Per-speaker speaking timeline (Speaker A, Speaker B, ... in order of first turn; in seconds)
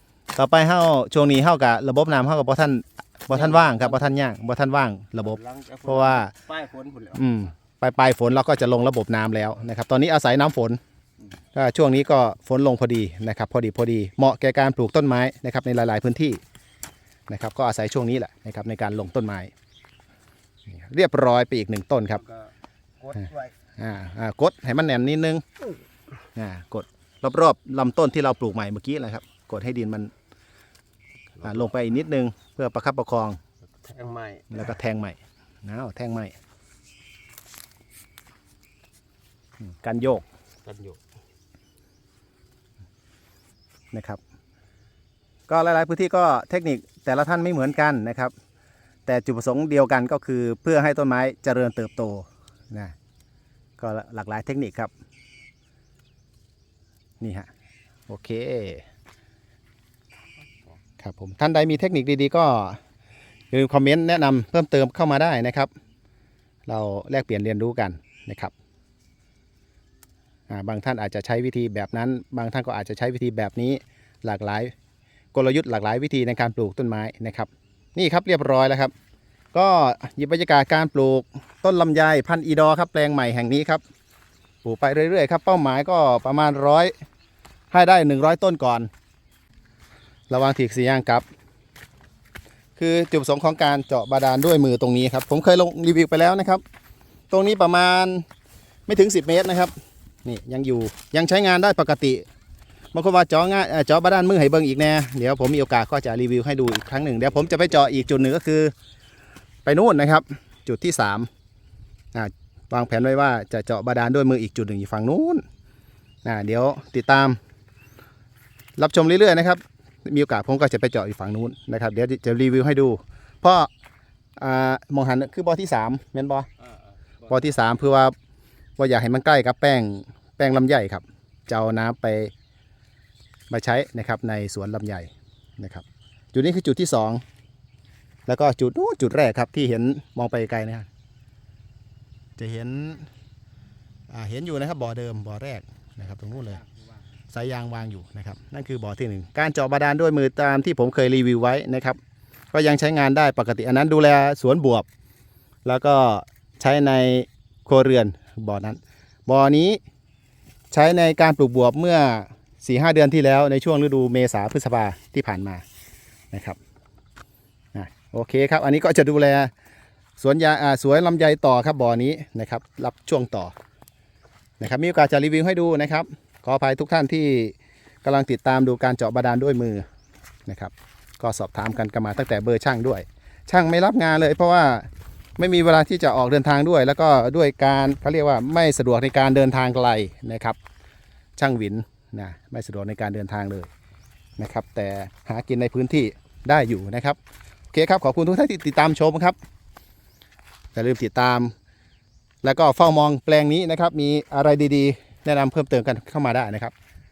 Speaker A: 0.3-6.3, 7.2-10.8, 11.6-16.4, 17.3-19.5, 20.7-22.2, 23.8-25.4, 26.4-30.1, 31.4-33.4, 34.5-36.4, 39.6-40.2, 43.9-44.2, 45.5-48.3, 49.1-52.9, 53.8-54.9, 57.2-57.5, 58.1-58.9, 61.0-62.8, 63.5-65.7, 66.7-68.5, 70.5-74.7, 75.3-78.9, 79.5-83.8, 84.6-86.9, 87.7-88.9, 90.3-91.2, 92.8-96.6, 97.3-98.3, 98.9-102.3, 102.9-108.7, 109.7-111.3, 112.1-115.4, 116.2-117.4, 118.8-123.7, 124.4-126.5, 127.3-128.2, 128.8-132.3, 133.5-137.2, 138.3-140.9, 142.4-143.1, 144.1-146.6, 147.3-152.0, 152.5-154.9, 155.7-159.8, 160.7-165.6, 166.3-166.6, 167.8-169.5, 170.2-173.5, 174.6-179.8, 180.5-190.6, 191.4-193.7, 194.4-197.2, 197.7-199.4, 200.7-201.5, 202.4-206.7
Speaker B: 3.3-4.2, 5.2-7.2, 23.0-23.5, 33.8-34.7, 40.6-41.0